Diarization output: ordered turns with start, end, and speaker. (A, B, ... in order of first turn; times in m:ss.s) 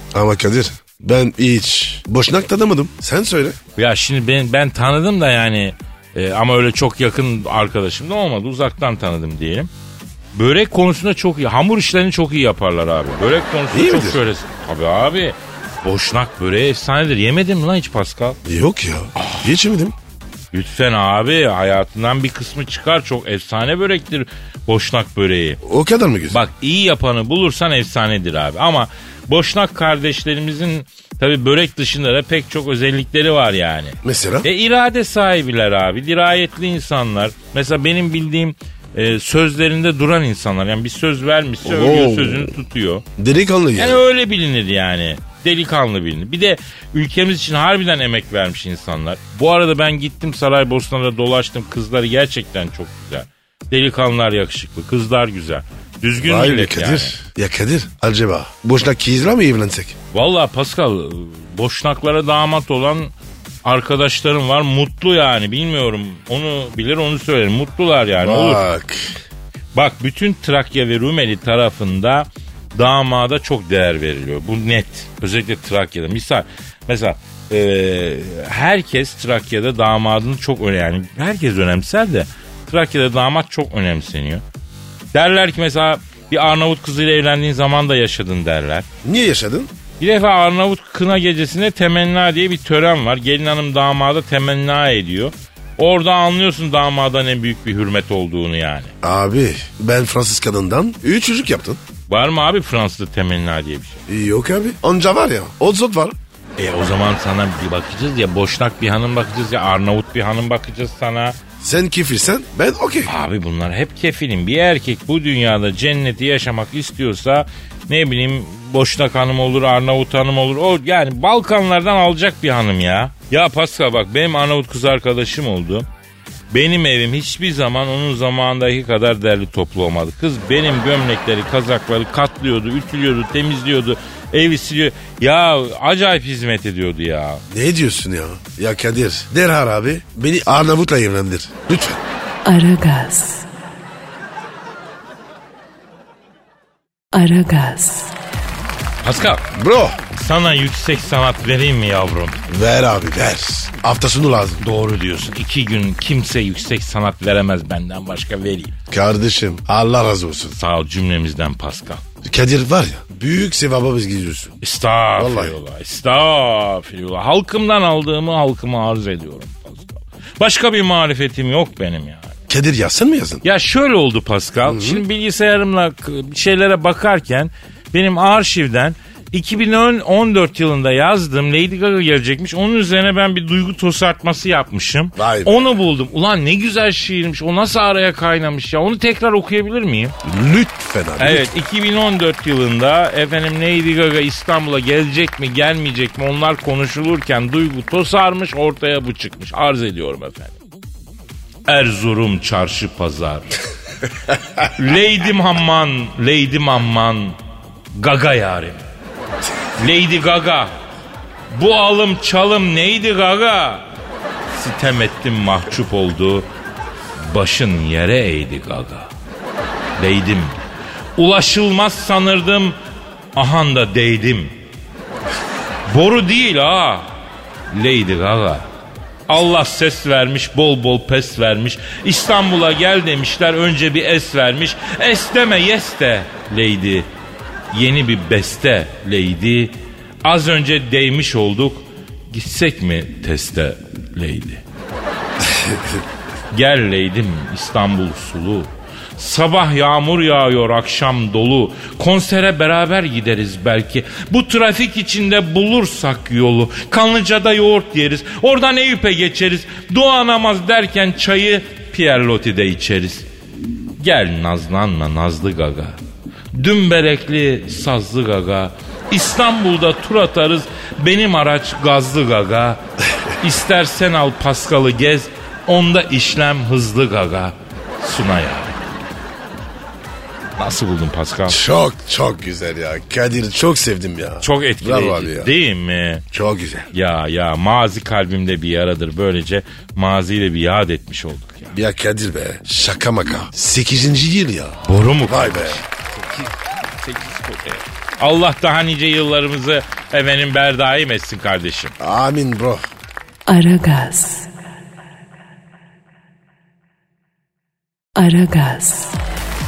0:00.1-0:03.6 A
0:03.8-0:09.7 B
0:10.3-0:18.4 B
0:13.7-0:14.2 A
0:18.4-0:20.0 A
0:19.2-0:19.5 B
0:20.5-0:25.6 B
0:25.6-0:26.4 A
0:26.3-0:43.0 B
0:34.0-0:34.5 A
0:41.6-0:42.5 A
0:43.2-0:44.0 A
0:43.8-0:57.2 B
0:56.2-1:00.0 A
1:00.1-1:03.1 B
1:03.6-1:08.6 B
1:08.2-1:09.2 A
1:09.7-1:24.4 B
1:25.1-1:28.9 B
1:29.0-1:29.7 A
1:30.0-1:38.9 B
1:39.0-1:41.8 A
1:42.1-1:44.0 B
1:44.1-1:46.2 A
1:46.6-1:51.4 B
1:51.6-1:53.1 A
1:53.0-2:05.9 B
2:06.5-2:17.4 B
2:17.5-2:22.0 A
2:22.4-2:23.4 C
2:27.1-2:28.2 C
2:29.0-2:29.4 B
2:29.5-2:30.0 A
2:30.1-2:32.4 B
2:32.5-2:34.6 A
2:34.6-2:38.7 B
2:38.9-2:40.6 A
2:40.6-2:42.0 B
2:42.2-2:44.6 A
2:44.6-2:52.4 B
2:45.2-2:45.6 A
2:52.5-2:53.4 A
2:53.4-3:10.2 B
2:54.6-2:55.0 A
3:05.1-3:05.7 A
3:10.2-3:11.5 A
3:11.2-3:20.5 B
3:21.6-3:23.5 B
3:24.6-3:27.4 B
3:27.9-3:28.8 B
3:29.8-3:30.7 B
3:31.5-3:33.8 B
3:34.5-3:36.5 B
3:37.2-3:39.1 B
3:40.0-3:40.5 B
3:41.2-3:42.8 B
3:43.3-3:44.5 B
3:45.9-3:47.1 B
3:47.7-3:48.7 B
3:49.3-3:57.1 B
3:57.7-4:04.6 B
4:06.5-4:23.3 B
4:24.0-4:26.0 B
4:26.5-4:32.8 B
4:33.4-4:38.8 B
4:40.6-4:41.6 B
4:41.5-4:45.5 A
4:44.4-4:46.2 B
4:46.3-4:46.9 A
4:46.9-4:51.8 B
4:51.7-4:55.8 A
4:54.8-4:56.5 B
4:57.0-5:01.9 B
5:02.0-5:02.8 A
5:03.5-5:04.5 C
5:08.2-5:09.2 C